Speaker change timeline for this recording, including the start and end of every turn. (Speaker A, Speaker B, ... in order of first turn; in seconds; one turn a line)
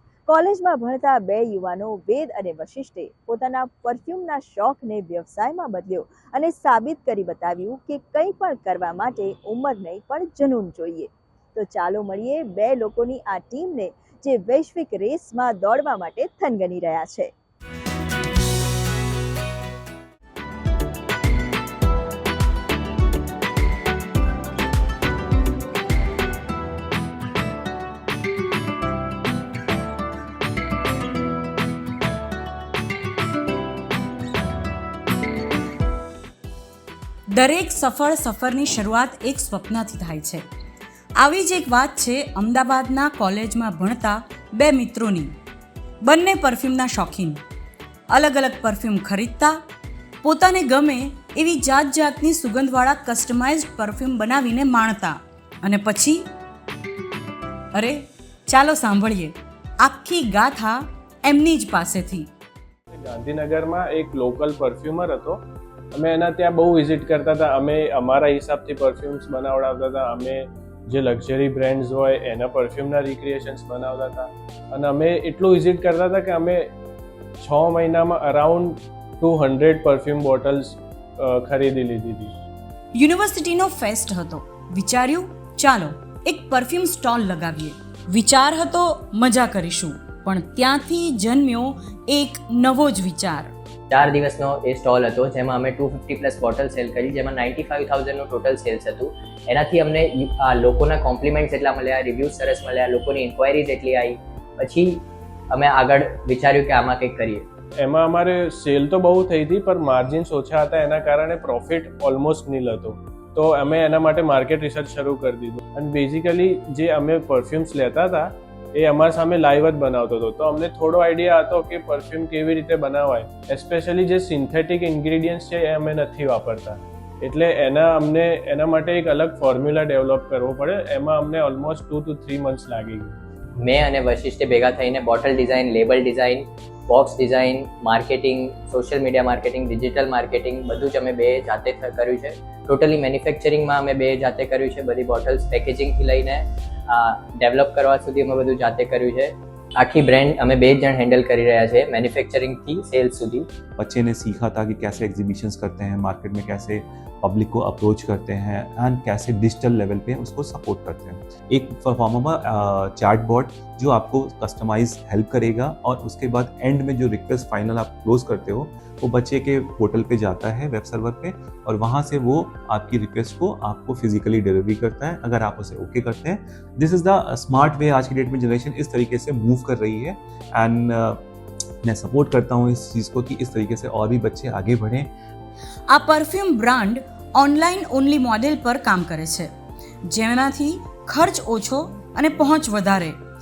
Speaker A: 0.3-17.3
Speaker B: 37.3-40.4
Speaker B: 41.2-45.3
Speaker B: 46.0-47.4
Speaker B: 48.1-49.5
Speaker B: 50.2-56.2
Speaker B: 57.7-62.3
Speaker C: 62.9-76.7
Speaker C: 77.4-82.3
Speaker B: 82.9-93.5
Speaker D: 93.9-107.4
Speaker C: 107.8-133.2
Speaker D: 133.6-153.4
Speaker E: 153.8-181.2
Speaker E: 181.8-185.1
Speaker B: 185.9-189.5
Speaker B: 190.1-193.1